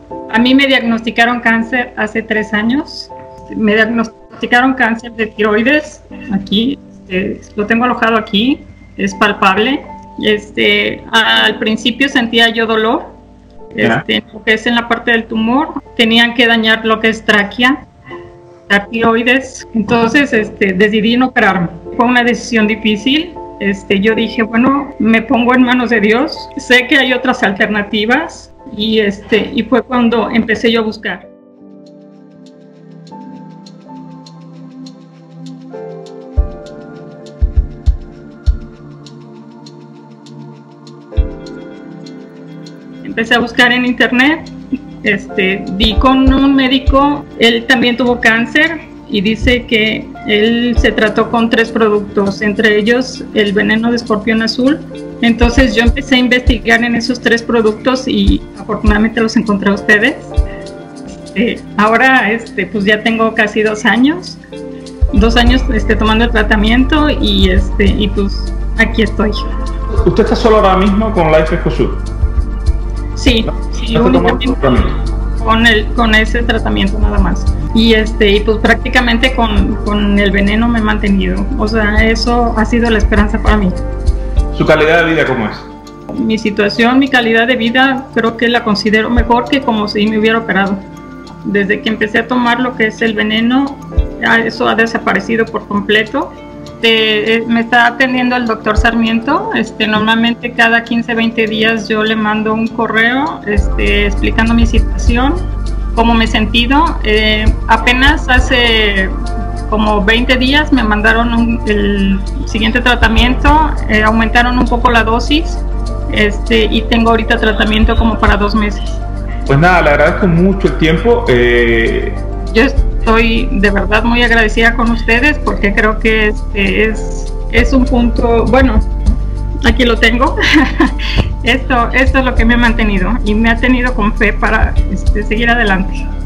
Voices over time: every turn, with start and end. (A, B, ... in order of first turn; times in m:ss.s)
0:00.3-0:13.1 A
0:13.7-0:17.8 A
0:18.7-0:31.3 A
0:43.0-0:44.5 A
0:45.0-1:00.3 A
1:01.1-1:04.4 A
1:05.1-1:09.4 A
1:09.9-1:12.0 B
1:13.2-1:14.6 A
1:13.9-1:15.0 B
1:15.4-1:23.8 A
1:24.5-1:25.7 B
1:26.1-1:30.8 A
1:31.4-1:59.0 A
1:59.5-2:02.2 B
2:02.5-2:08.9 A
2:09.6-2:16.0 A